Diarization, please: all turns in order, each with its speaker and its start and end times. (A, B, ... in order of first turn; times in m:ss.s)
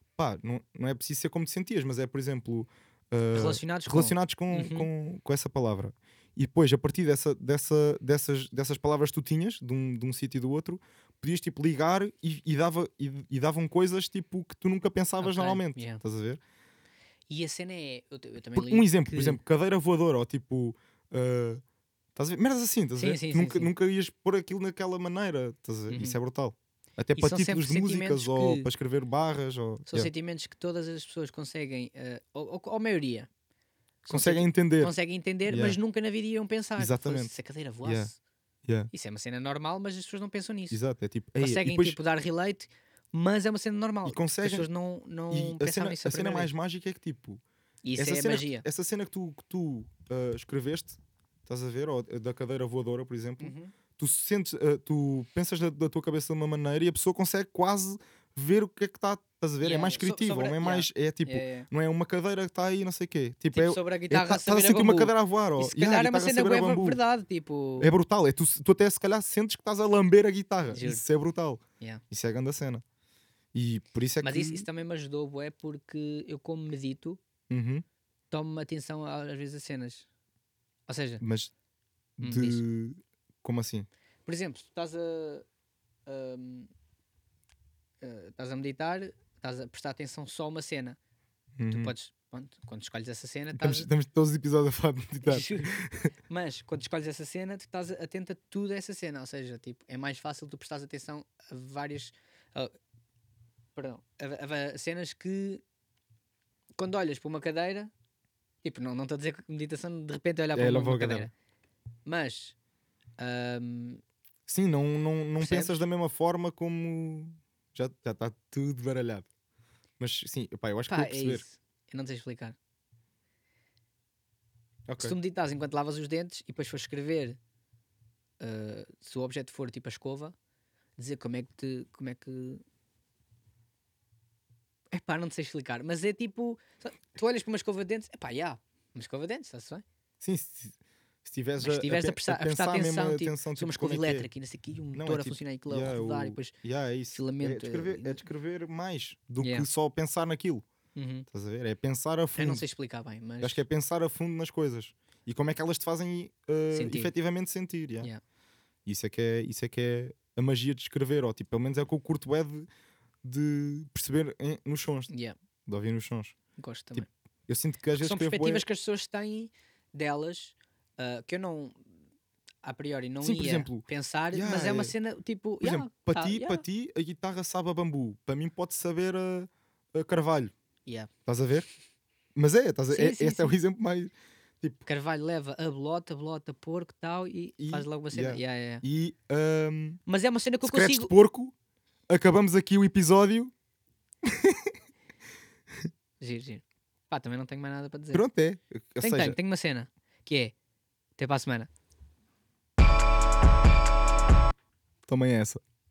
0:00.2-0:16.4 A
0:03.3-0:04.9 B
0:15.2-0:16.0 B
0:17.3-0:19.4 B
0:18.6-0:21.6 A
0:22.2-0:30.1 A
0:23.0-0:23.7 B
0:25.9-0:26.2 B
0:27.2-0:28.7 B
0:29.9-0:33.3 B
0:34.0-0:38.2 B
0:34.1-0:34.9 A
0:35.5-0:35.8 A
0:36.8-0:37.3 A
0:37.8-0:38.1 A
0:38.9-0:40.8 B
0:40.7-0:42.0 A
0:41.4-0:46.5 B
0:44.0-0:44.7 A
0:45.3-0:47.4 A
0:47.8-0:48.6 B
0:48.0-1:07.0 A
0:53.4-0:53.7 B
0:59.6-1:01.7 B
1:03.5-1:07.9 B
1:07.8-1:12.8 A
1:10.7-1:11.0 B
1:13.5-1:14.6 A
1:14.2-1:17.2 B
1:17.5-1:17.8 A
1:18.3-1:20.1 B
1:20.9-1:21.2 B
1:21.2-1:21.5 A
1:22.2-1:23.9 A
1:22.2-1:22.6 B
1:24.3-1:25.4 B
1:26.1-1:26.7 B
1:28.0-1:31.0 B
1:31.6-1:31.9 A
1:31.7-1:33.9 B
1:33.6-1:36.1 A
1:35.2-1:42.7 B
1:43.8-1:45.6 B
1:46.8-1:47.9 B
1:48.6-1:51.3 B
1:50.5-1:51.3 A
1:52.1-1:52.6 B
1:53.2-1:54.0 B
1:54.5-1:59.3 A
1:55.4-1:55.9 B
2:00.0-2:01.4 A
2:00.9-2:02.6 B
2:04.9-2:05.2 A
2:05.0-2:07.4 B
2:08.4-2:10.4 B
2:11.0-2:12.6 B
2:14.9-2:19.8 B
2:20.2-2:24.3 A
2:21.6-2:26.5 B
2:24.9-2:30.6 A
2:27.1-2:28.2 B
2:29.4-2:29.7 B
2:31.0-2:31.3 B
2:31.3-2:32.6 A
2:32.4-2:33.6 B
2:33.4-2:38.1 A
2:36.7-2:37.1 B
2:38.9-2:42.7 A
2:43.2-2:45.1 A
2:45.1-2:45.4 B
2:45.7-2:46.4 A
2:46.6-2:47.1 B
2:47.0-2:48.6 A
2:48.0-2:51.8 B
2:52.6-2:56.6 B
2:53.2-2:54.9 A
2:55.6-3:00.5 A
3:01.3-3:01.7 A
3:02.4-3:04.8 A
3:02.9-3:03.6 B
3:04.9-3:08.8 B
3:07.6-3:10.0 A
3:10.1-3:11.1 B
3:10.6-3:11.5 A
3:12.1-3:13.5 A
3:14.2-3:14.7 A
3:16.2-3:18.2 B
3:18.1-3:19.4 A
3:19.0-3:20.5 B
3:21.2-3:21.7 B
3:25.1-3:25.6 A